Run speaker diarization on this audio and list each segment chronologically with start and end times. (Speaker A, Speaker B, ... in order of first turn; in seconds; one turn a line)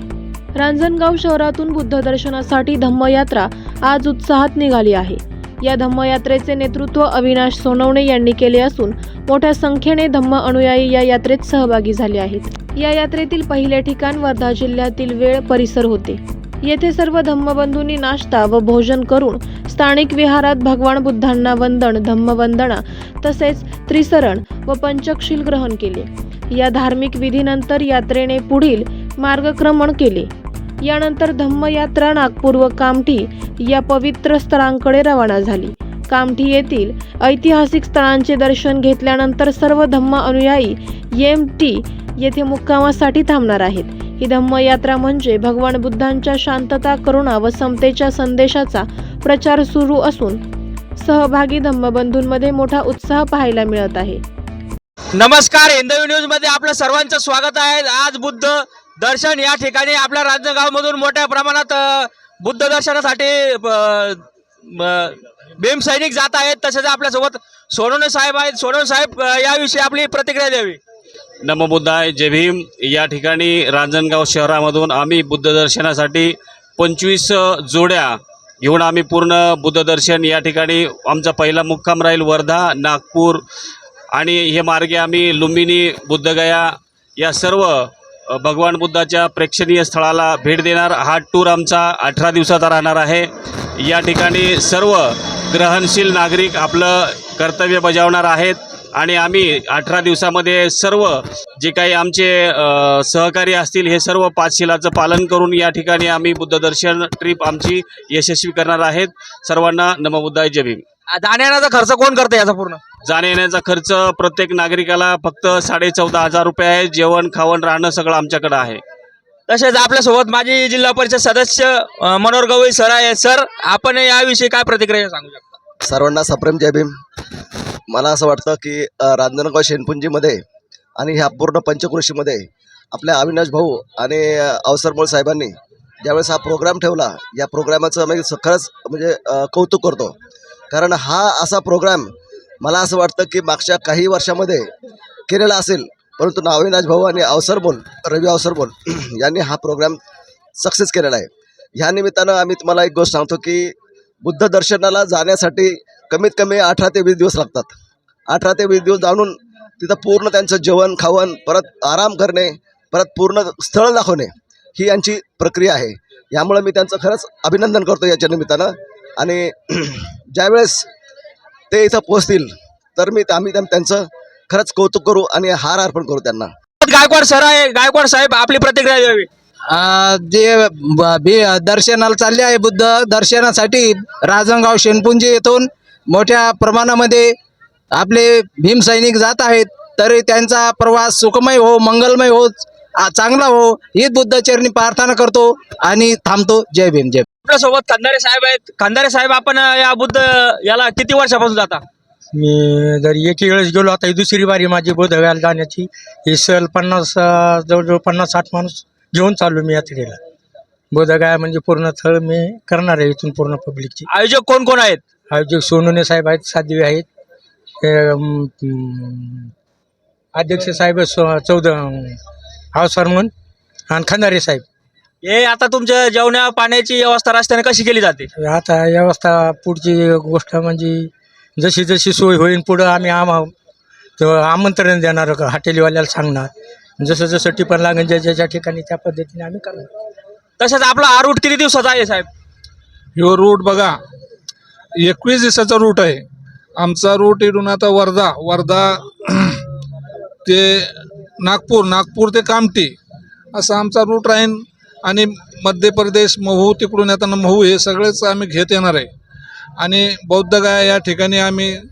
Speaker A: 0.5-30.3
Speaker A: 30.8-50.4
Speaker A: 51.0-54.2
Speaker B: 55.1-70.8
Speaker C: 71.4-83.4
Speaker C: 84.2-93.3
Speaker C: 93.8-110.8
Speaker B: 111.1-112.8
Speaker C: 113.0-118.8
Speaker B: 119.5-125.5
Speaker D: 125.8-126.9
Speaker D: 127.9-130.4
Speaker D: 131.0-140.1
Speaker D: 140.7-144.7
Speaker D: 145.3-150.0
Speaker D: 150.6-157.7
Speaker D: 158.3-170.8
Speaker D: 171.7-176.5
Speaker B: 176.8-179.3
Speaker E: 179.7-187.3
Speaker E: 187.9-197.2
Speaker B: 197.4-201.8
Speaker F: 202.3-210.2
Speaker F: 210.9-214.1
Speaker B: 214.1-215.0
Speaker F: 215.3-217.1
Speaker F: 217.8-219.5
Speaker F: 220.3-222.2
Speaker F: 222.7-223.3
Speaker F: 223.9-224.6
Speaker B: 225.2-228.3
Speaker F: 228.4-233.5
Speaker F: 234.2-239.9
Speaker B: 240.6-242.3
Speaker G: 243.2-243.9
Speaker G: 245.0-246.2
Speaker G: 246.8-249.6
Speaker G: 250.4-252.9
Speaker G: 253.5-259.1
Speaker G: 259.8-261.8